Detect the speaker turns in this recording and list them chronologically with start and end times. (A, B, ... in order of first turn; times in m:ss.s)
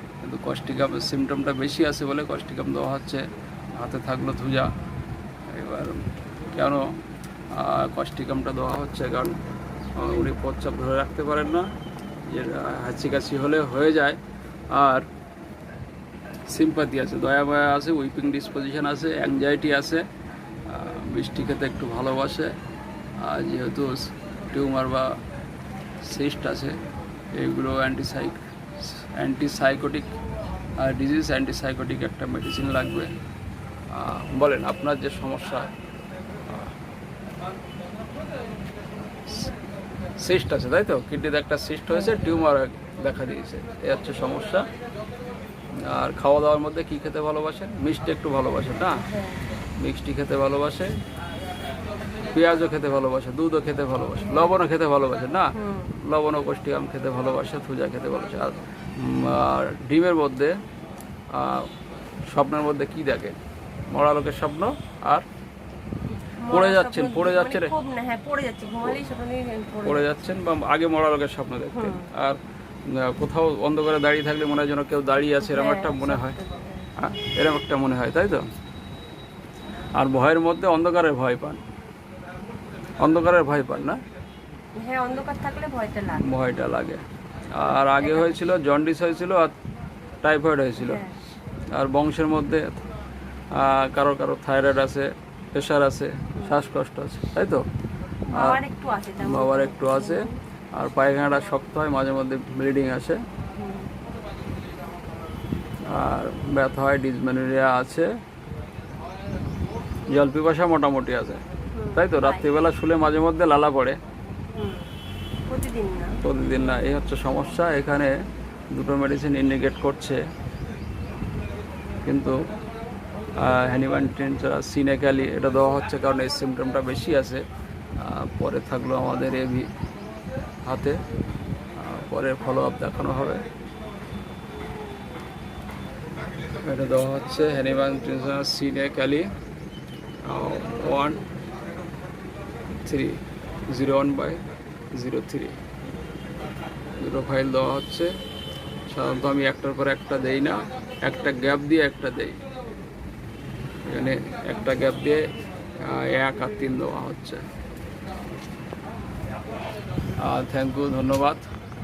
0:00.2-0:04.7 A
0:05.5-0:07.0 A
0:07.5-0:09.4 A
0:10.0-0:11.7 A
0:12.3-0:14.2 A
0:14.7-0:15.1 A
0:16.5-0:20.0 A
0:20.6-0:22.6 A
0:23.2-0:25.2 A
0:26.0-0:26.8 A
0:27.3-0:30.1 A
0:30.8-0:33.2 A
0:33.9-0:35.7 A
0:39.3-0:39.5 A
0:40.2-0:44.7 A
0:45.8-0:49.1 A
0:49.8-0:51.0 A
0:52.3-1:00.6 A
0:55.5-0:55.9 B
1:01.3-1:01.7 A
1:02.3-1:03.4 A
1:03.9-1:05.2 A
1:06.2-1:10.1 B
1:06.5-1:07.7 A
1:09.8-1:16.4 A
1:11.7-1:12.1 B
1:15.4-1:16.9 B
1:17.0-1:18.4 A
1:19.9-1:21.6 A
1:23.0-1:24.0 A
1:24.7-1:26.2 B
1:26.2-1:29.5 A
1:27.6-1:28.5 B
1:30.2-1:31.0 A
1:30.8-1:31.1 B
1:31.7-1:32.8 A
1:33.5-1:37.7 A
1:38.3-1:40.4 B
1:38.3-1:38.6 A
1:39.2-1:43.2 A
1:43.6-1:43.9 B
1:45.8-1:48.1 A
1:50.1-1:51.4 A
1:51.7-1:52.5 B
1:51.9-1:54.0 A
1:54.5-1:54.9 B
1:55.5-1:56.2 B
1:56.2-1:58.2 A
1:58.7-2:00.2 A
2:02.0-2:02.4 A
2:03.4-2:07.4 A
2:08.0-2:09.7 A
2:10.6-2:11.0 A
2:11.8-2:13.4 A
2:16.6-2:19.3 A
2:20.2-2:21.2 A
2:22.8-2:24.4 A
2:24.9-2:25.6 A
2:27.0-2:28.2 A
2:28.9-2:32.4 A
2:33.9-2:37.4 A
2:40.2-2:41.5 A